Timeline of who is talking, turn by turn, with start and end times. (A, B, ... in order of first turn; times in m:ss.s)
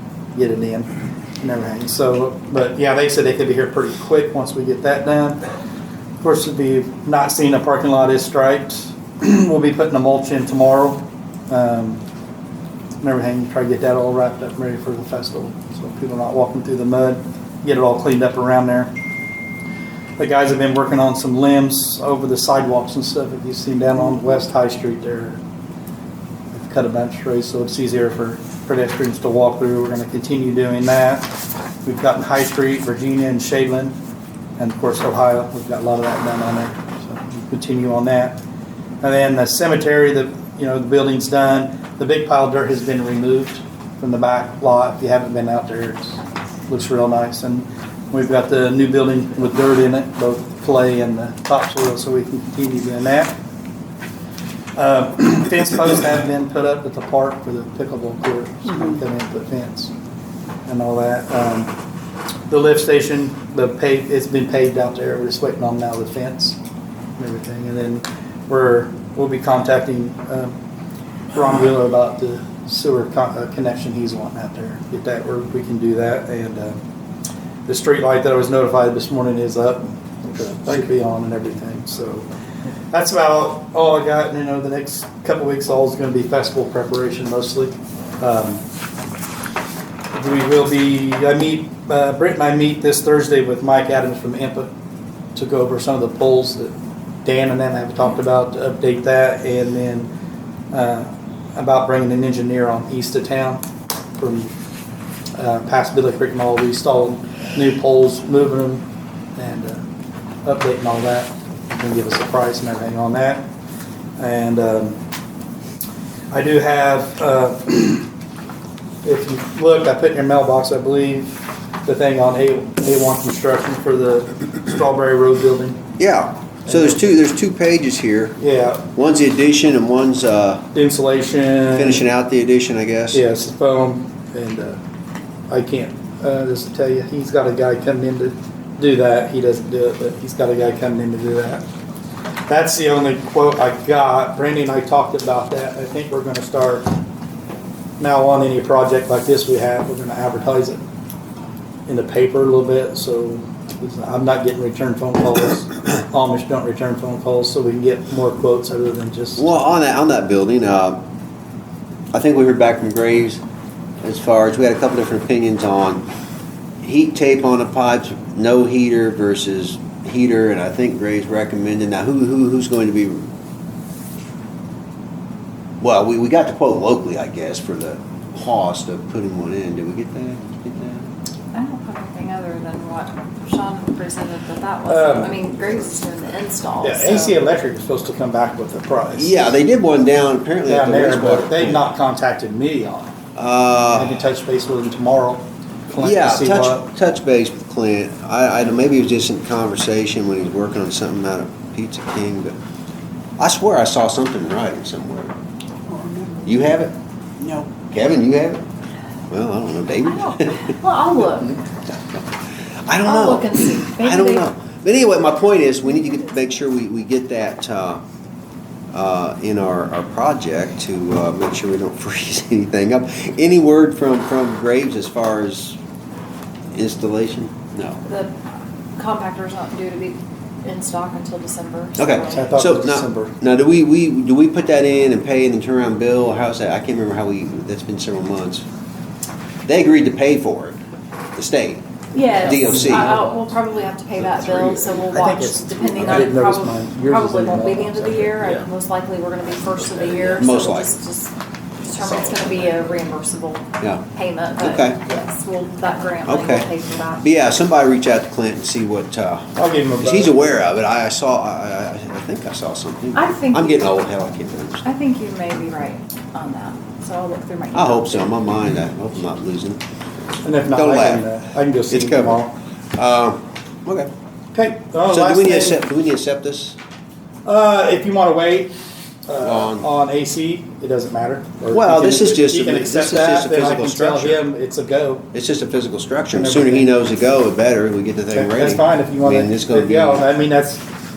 0:00.3-0:00.9 A
0:01.4-0:05.4 A
0:06.2-0:12.0 A
0:13.0-0:18.9 A
0:20.2-0:25.4 A
0:26.5-0:31.3 A
0:31.8-0:34.0 A
0:34.6-0:38.4 A
0:39.0-0:53.3 A
0:54.8-0:59.9 A
1:00.7-1:01.7 A
1:02.5-1:06.6 A
1:07.2-1:10.5 A
1:11.3-1:16.8 A
1:17.6-1:22.3 A
1:22.9-1:28.6 A
1:30.1-1:34.7 A
1:35.3-1:40.1 A
1:40.7-1:43.6 A
1:44.2-1:44.5 A
1:45.4-1:48.8 A
1:49.4-1:49.8 A
1:50.4-1:53.5 A
1:54.2-1:55.0 A
1:56.3-1:58.1 A
1:59.0-2:05.8 A
2:06.0-2:08.4 B
2:06.6-2:07.0 A
2:08.4-2:08.8 A
2:08.9-2:10.7 B
2:10.7-2:12.0 A
2:11.7-2:13.2 B
2:13.1-2:14.8 A
2:15.5-2:21.6 A
2:22.5-2:26.9 A
2:28.0-2:30.8 A
2:31.9-2:39.5 A
2:39.4-2:41.0 B
2:42.1-2:43.4 B
2:44.0-2:46.0 B
2:46.8-2:53.3 B
2:55.8-3:01.1 B
3:01.5-3:07.4 C
3:04.9-3:05.4 A
3:06.8-3:09.6 A
3:09.2-3:11.9 B
3:10.6-3:13.1 A
3:13.3-3:14.2 B
3:13.9-3:16.9 A
3:16.0-3:22.6 B
3:23.4-3:25.3 B
3:25.9-3:28.6 B
3:29.3-3:30.8 B
3:30.0-3:31.6 C
3:31.6-3:32.3 B
3:32.8-3:38.0 B
3:33.0-3:34.4 C
3:38.9-3:45.8 B
3:46.7-3:48.0 B
3:48.0-3:48.3 C
3:49.0-3:52.5 C
3:52.0-3:58.6 B
3:52.3-3:53.3 A
3:59.6-4:00.8 B
4:01.4-4:03.3 B
4:02.1-4:17.2 C
4:02.5-4:03.2 A
4:04.2-4:06.3 B
4:05.9-4:08.4 A
4:08.4-4:08.6 B
4:09.6-4:10.9 B
4:12.0-4:13.0 B
4:13.8-4:14.0 B
4:14.6-4:15.1 B
4:16.2-4:24.8 B
4:19.5-4:20.5 A
4:23.1-4:23.9 C
4:24.8-4:28.3 C
4:27.7-4:29.8 B
4:30.4-4:32.5 A
4:30.7-4:31.3 B
4:31.9-4:32.4 B
4:33.0-4:34.1 B
4:34.5-4:35.8 A
4:35.1-4:36.8 B
4:37.4-4:38.7 A
4:39.2-4:45.2 A
4:39.4-4:39.8 B
4:41.7-4:44.4 B
4:45.3-4:50.3 B
4:46.3-4:46.9 A
4:48.3-4:50.8 A